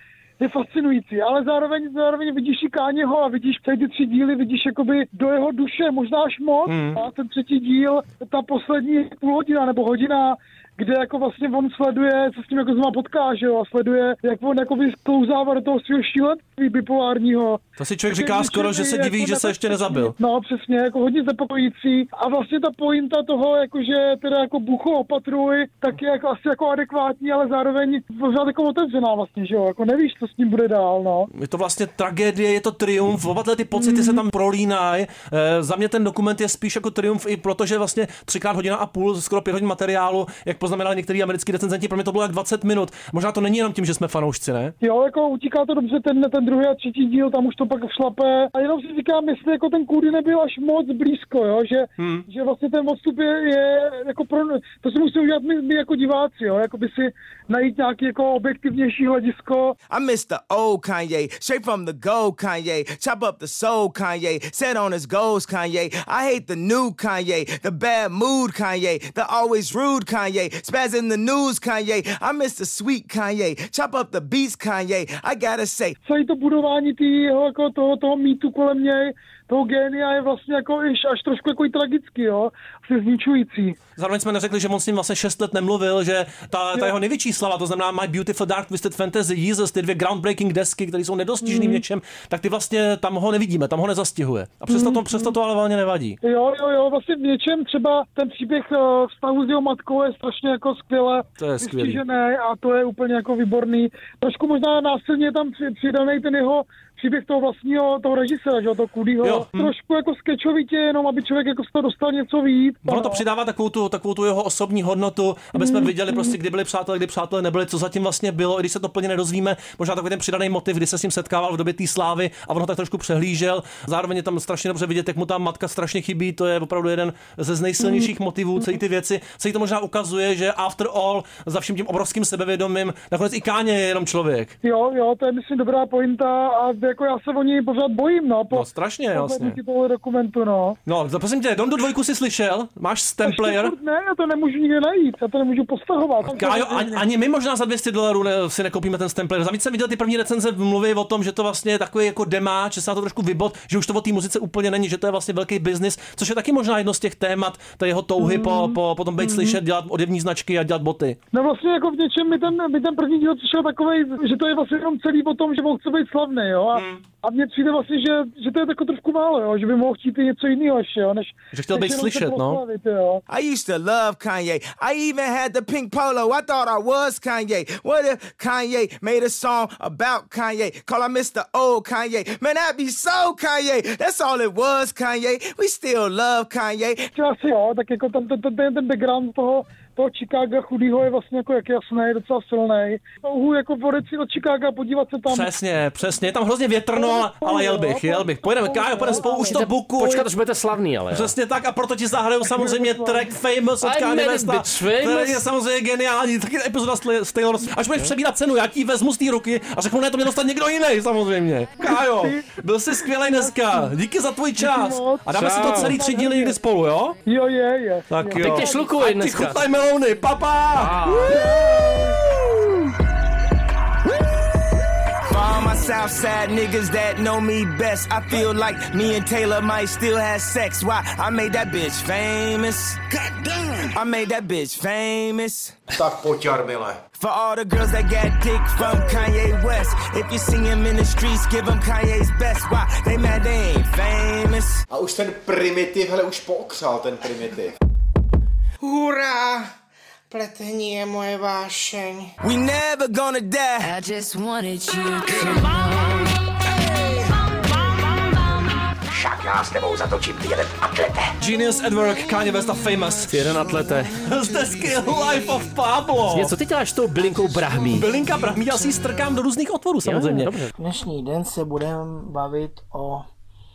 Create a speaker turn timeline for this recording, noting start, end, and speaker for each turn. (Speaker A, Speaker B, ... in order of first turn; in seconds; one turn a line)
Speaker A: 0.4-31.3
Speaker B: 6.7-7.0
Speaker B: 17.8-20.1
Speaker B: 31.3-44.7
Speaker A: 33.8-34.1
Speaker A: 44.8-59.8
Speaker B: 52.0-52.2
Speaker C: 59.9-76.0
Speaker A: 76.0-83.8
Speaker B: 84.0-96.2
Speaker A: 91.4-91.8
Speaker A: 94.7-95.3
Speaker A: 96.2-113.2
Speaker B: 101.4-102.0
Speaker B: 109.2-109.7
Speaker B: 112.9-134.6
Speaker A: 115.5-116.3
Speaker A: 134.6-140.8
Speaker B: 138.5-139.6
Speaker B: 140.9-143.8
Speaker A: 143.2-147.1
Speaker B: 146.3-161.2
Speaker A: 158.2-159.6
Speaker A: 161.3-173.2
Speaker B: 166.8-167.0
Speaker B: 171.5-172.6
Speaker C: 173.3-187.1
Speaker A: 187.1-195.5
Speaker B: 195.3-200.3
Speaker A: 196.9-199.6
Speaker D: 199.5-201.3
Speaker B: 201.1-217.2
Speaker A: 202.4-203.3
Speaker D: 203.8-205.4
Speaker A: 211.8-213.9
Speaker A: 214.6-216.6
Speaker D: 215.4-216.0
Speaker A: 217.2-218.9
Speaker B: 218.1-221.6
Speaker D: 218.4-219.6
Speaker D: 220.8-221.4
Speaker A: 221.3-222.2
Speaker C: 225.3-233.0
Speaker C: 233.9-235.8
Speaker E: 236.0-237.0
Speaker C: 237.1-244.8
Speaker E: 244.9-247.7
Speaker F: 248.8-249.8
Speaker F: 250.3-252.3
Speaker C: 252.4-253.9
Speaker G: 253.8-256.4
Speaker B: 261.4-266.6
Speaker D: 263.3-264.2
Speaker F: 264.5-265.4
Speaker D: 266.3-268.1
Speaker B: 267.9-270.5
Speaker D: 270.1-270.7
Speaker F: 270.8-273.3